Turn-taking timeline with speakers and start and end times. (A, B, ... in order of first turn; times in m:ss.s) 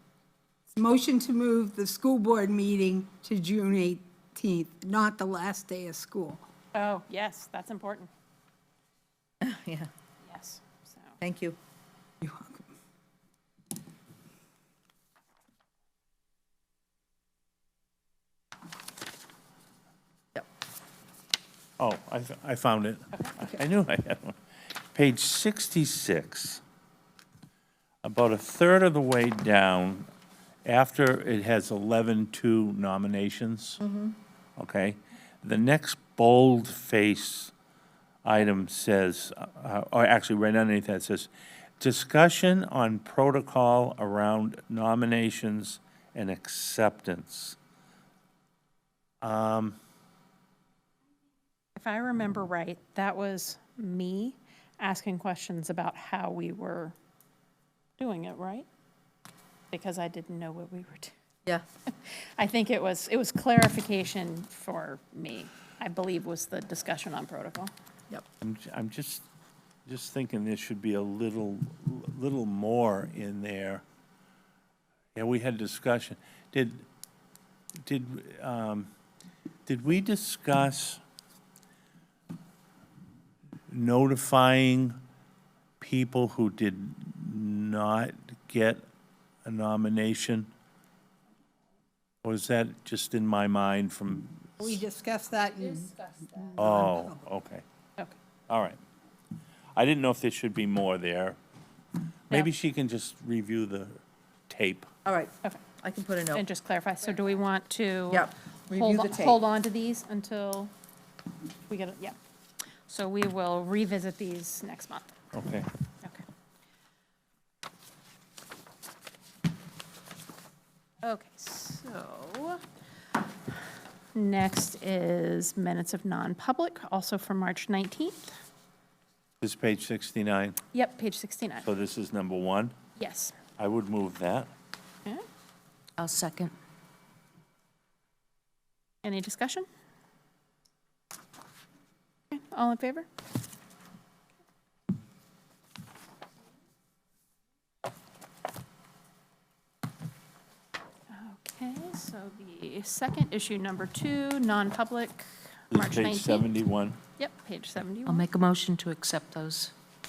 0:00.7-0:06.4 A
0:06.7-0:08.1 B
0:09.4-0:09.9 C
0:10.2-0:11.1 B
0:11.2-0:11.6 C
0:12.2-0:12.7 A
0:21.8-0:24.4 D
0:24.9-0:26.6 D
0:28.0-0:30.1 D
0:30.6-0:33.8 D
0:33.8-0:34.1 C
0:34.6-0:37.5 D
0:38.2-0:47.6 D
0:49.2-0:49.8 D
0:51.8-0:56.9 B
0:58.0-0:58.7 B
0:59.7-1:01.1 B
1:02.0-1:07.7 B
1:08.4-1:09.2 D
1:09.8-1:13.8 D
1:15.1-1:16.8 D
1:17.8-1:18.9 D
1:19.6-1:21.0 D
1:23.7-1:25.0 D
1:25.8-1:28.8 D
1:29.4-1:30.5 D
1:32.2-1:34.8 D
1:34.6-1:37.2 A
1:36.6-1:37.6 D
1:38.5-1:38.8 D
1:39.7-1:41.4 D
1:42.3-1:44.9 D
1:45.0-1:46.4 C
1:46.3-1:50.7 B
1:48.1-1:49.4 C
1:51.7-1:52.2 B
1:52.9-1:55.1 B
1:55.3-1:55.7 D
2:01.0-2:02.6 B
2:04.1-2:08.4 B
2:09.4-2:10.6 D
2:10.7-2:11.7 B
2:11.6-2:12.7 D
2:13.0-2:13.3 B
2:13.6-2:14.5 D
2:16.0-2:16.5 E
2:19.0-2:19.6 B
2:22.3-2:23.1 B
2:31.1-2:36.5 B
2:35.7-2:37.0 D
2:37.2-2:38.3 B
2:38.1-2:39.7 E